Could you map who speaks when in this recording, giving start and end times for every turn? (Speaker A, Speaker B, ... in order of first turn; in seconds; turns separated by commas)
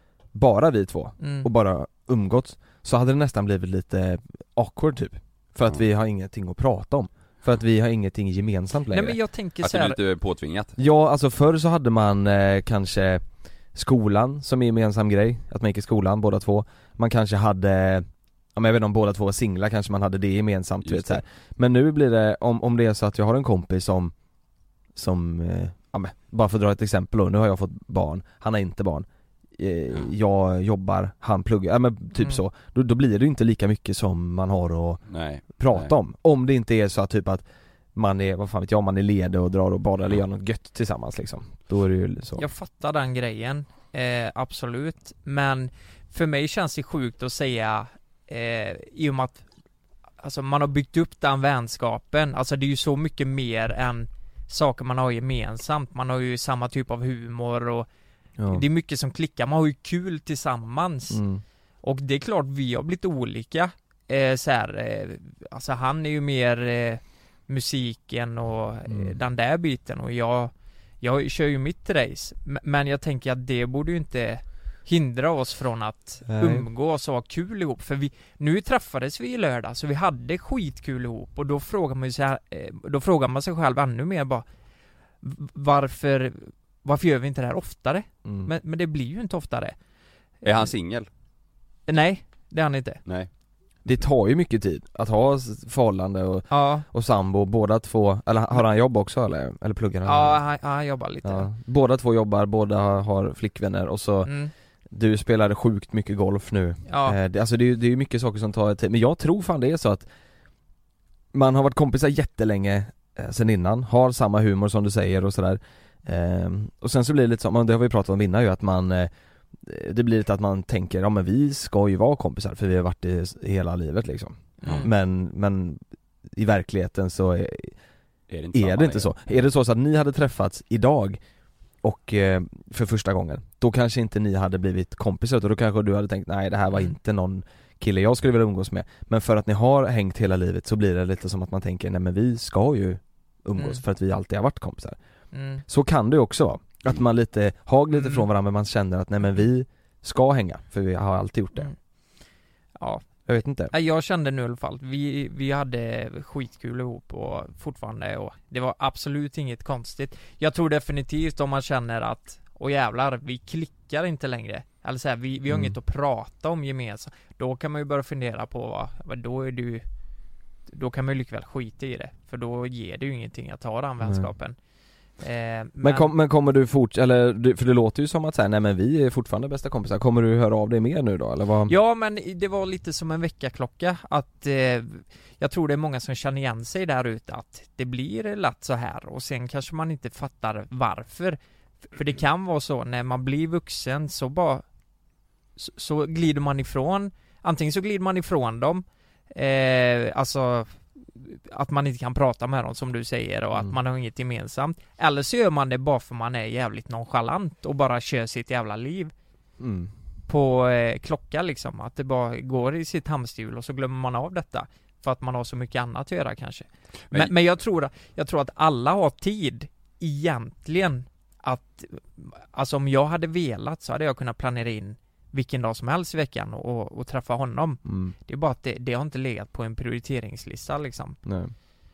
Speaker A: 0.3-9.2, Speaker B: 1.2-1.5, Speaker B: 8.9-10.0, Speaker C: 9.6-10.7, Speaker A: 10.8-13.2, Speaker A: 13.7-24.1, Speaker C: 20.8-21.2, Speaker A: 24.9-35.0, Speaker C: 35.1-35.9, Speaker A: 35.5-37.4, Speaker A: 37.9-42.5, Speaker B: 42.4-49.4, Speaker B: 50.2-57.9, Speaker A: 58.4-58.6, Speaker B: 58.5-61.2, Speaker A: 61.1-61.4, Speaker B: 61.8-84.4, Speaker A: 68.9-69.2, Speaker A: 76.2-76.7, Speaker B: 85.2-89.7, Speaker A: 88.2-88.5, Speaker C: 90.4-91.1, Speaker B: 91.9-93.0, Speaker A: 93.8-100.4, Speaker B: 96.5-96.8, Speaker B: 100.0-101.5, Speaker A: 101.2-104.3, Speaker B: 104.2-104.5, Speaker A: 104.9-110.1, Speaker B: 106.9-107.2, Speaker A: 111.3-119.1, Speaker A: 119.6-125.8, Speaker B: 124.6-124.9, Speaker A: 126.3-127.8, Speaker C: 128.3-129.1, Speaker A: 128.5-131.2, Speaker A: 131.8-145.0, Speaker B: 143.6-143.8, Speaker B: 145.3-145.6, Speaker A: 145.7-151.7, Speaker B: 147.9-148.3, Speaker B: 152.8-153.1, Speaker A: 153.2-153.7, Speaker B: 153.7-169.8, Speaker A: 165.5-165.8, Speaker B: 170.7-174.6, Speaker A: 174.0-174.3, Speaker B: 175.2-176.1, Speaker A: 175.8-181.7, Speaker B: 181.7-191.4, Speaker B: 191.9-194.6, Speaker B: 195.6-209.1, Speaker A: 209.6-209.9, Speaker B: 210.3-231.2, Speaker A: 227.8-228.1, Speaker A: 231.2-231.5